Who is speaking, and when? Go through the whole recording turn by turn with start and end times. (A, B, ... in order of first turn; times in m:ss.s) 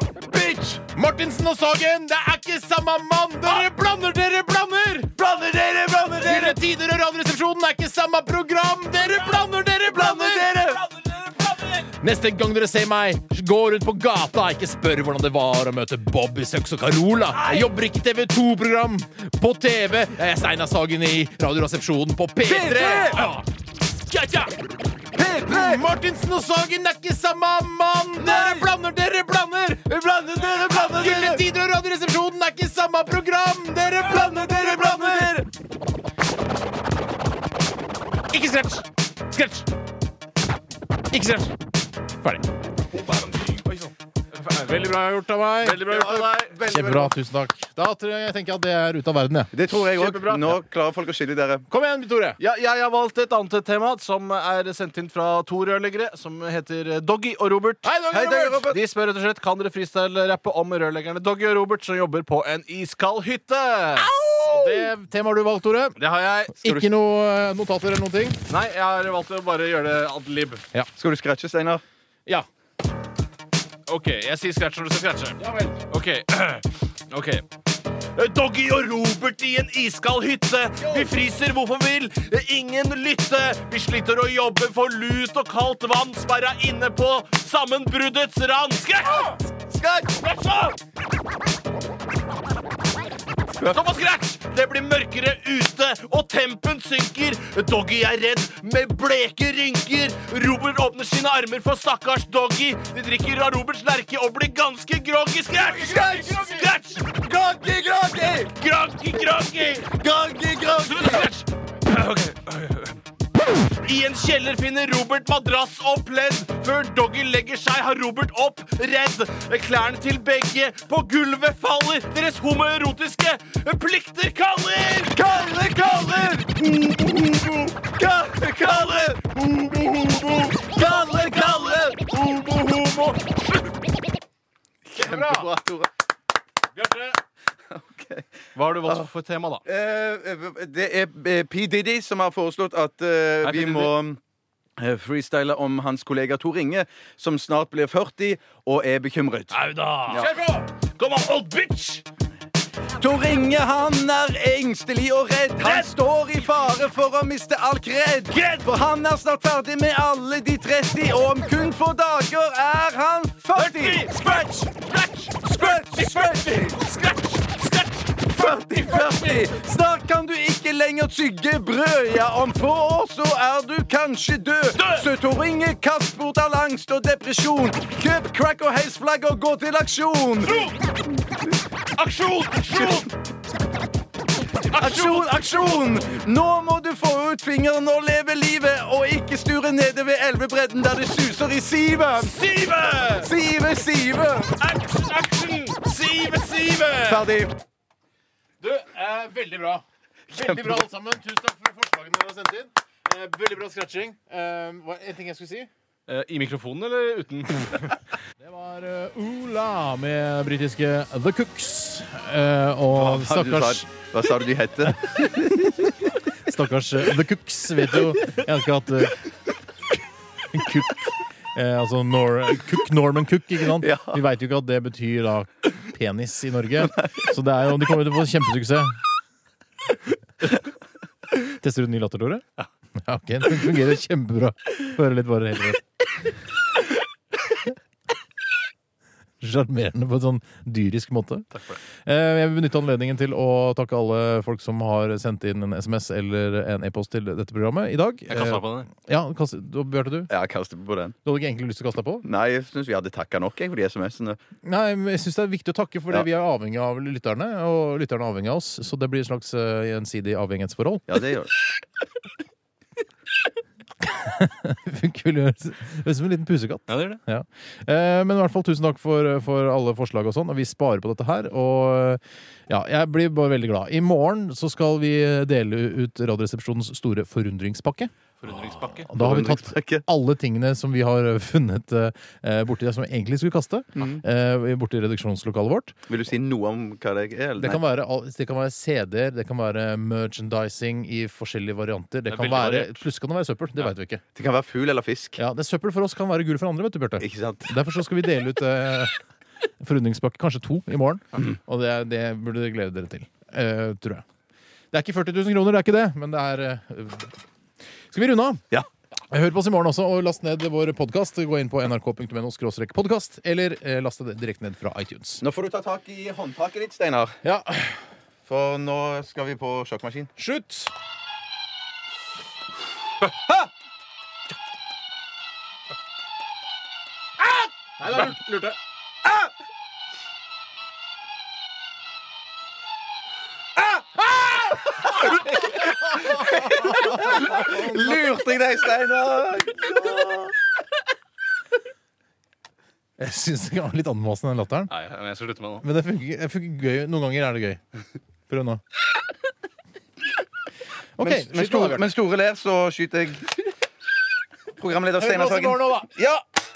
0:00.2-0:00.8 A
0:00.8-0:05.1 B
0:05.2-0:06.6 A
0:06.2-0:10.5 B
0:09.9-0:10.8 A
0:10.5-0:11.8 C
0:11.8-0:23.4 B
0:22.4-0:23.3 A
0:24.0-0:24.5 B
0:25.1-0:25.8 A
0:25.4-0:30.0 B
0:28.2-0:28.7 A
0:29.9-0:31.4 A
0:30.3-0:30.8 C
0:30.7-0:35.3 B
0:34.0-0:35.5 A
0:38.3-0:39.7 B
0:41.1-0:41.6 B
0:42.2-0:42.4 B
0:42.9-0:43.7 C
0:44.4-0:44.9 C
0:44.6-0:45.8 B
0:45.6-0:46.5 C
0:45.7-0:47.1 A
0:46.7-0:50.5 B
0:49.5-0:51.6 A
0:51.7-0:52.4 B
0:52.4-0:57.9 C
0:57.8-0:58.6 B
0:58.1-0:58.8 A
0:58.6-1:04.9 C
1:04.1-1:06.0 B
1:06.0-1:06.7 C
1:06.6-1:08.4 B
1:08.5-1:10.6 C
1:10.9-1:11.8 A
1:13.9-1:17.4 C
1:15.4-1:15.7 B
1:18.1-1:29.4 C
1:20.8-1:21.1 A
1:29.3-1:30.4 A
1:30.3-1:30.7 C
1:33.6-1:47.1 C
1:45.6-1:48.5 A
1:48.3-1:50.0 C
1:49.9-1:51.3 A
1:50.7-1:53.0 C
1:53.8-2:05.2 C
2:05.1-2:12.0 A
2:06.6-2:07.4 C
2:08.7-2:13.5 C
2:14.9-2:15.9 A
2:17.7-2:18.2 A
2:18.6-2:19.6 C
2:18.8-2:19.1 A
2:19.6-2:24.2 A
2:23.4-2:23.9 C
2:24.8-2:29.6 A
2:29.5-2:32.0 C
2:30.2-2:30.6 B
2:33.0-2:44.2 A
2:35.6-2:35.9 C
2:38.3-2:38.6 C
2:43.5-2:49.4 C
2:45.4-2:46.8 A
2:48.2-3:00.7 A
2:54.7-2:55.0 C
3:00.5-3:00.7 C
3:02.0-3:03.1 C
3:04.7-3:05.3 C
3:04.8-3:12.4 A
3:12.2-3:13.3 C
3:13.1-3:14.6 A
3:14.6-3:17.3 C
3:17.0-3:17.6 A
3:18.6-3:25.7 B
3:20.3-3:20.8 A
3:26.1-3:27.9 C
3:28.4-3:33.9 B
3:32.9-3:35.4 A
3:35.1-3:39.2 B
3:40.5-3:41.0 B
3:41.5-3:49.0 B
3:43.8-3:44.2 A
3:51.4-3:52.4 B
3:53.0-3:55.8 B
3:59.4-4:10.3 B
4:01.5-4:01.8 C
4:08.3-4:08.9 C
4:10.3-4:11.2 A
4:11.2-4:12.2 B
4:12.2-4:14.4 A
4:14.6-4:21.2 B
4:21.1-4:21.5 A
4:24.0-4:38.1 B
4:26.9-4:27.2 C
4:38.4-4:39.1 C
4:39.0-4:46.0 B
4:39.1-4:40.0 A
4:44.0-4:44.2 A
4:46.1-4:47.8 A
4:47.6-4:54.2 B
4:52.3-4:52.9 C
4:54.3-4:55.4 A
4:55.4-4:59.2 B
4:57.2-4:57.7 A
4:59.8-5:04.2 B
5:04.9-5:07.3 B
5:08.1-5:08.6 B
5:09.3-5:15.4 B
5:15.4-5:17.4 A
5:17.4-5:18.0 B
5:18.4-5:20.3 A
5:20.4-5:20.9 B
5:28.0-5:28.8 B
5:36.0-5:40.6 A
5:36.8-5:38.2 B
5:43.2-5:44.9 B
5:44.9-5:45.8 C
5:45.8-5:47.8 B
5:48.5-5:48.8 B
5:51.2-5:52.1 B
5:51.2-5:53.7 A
5:54.8-5:56.4 A
5:55.2-5:56.1 B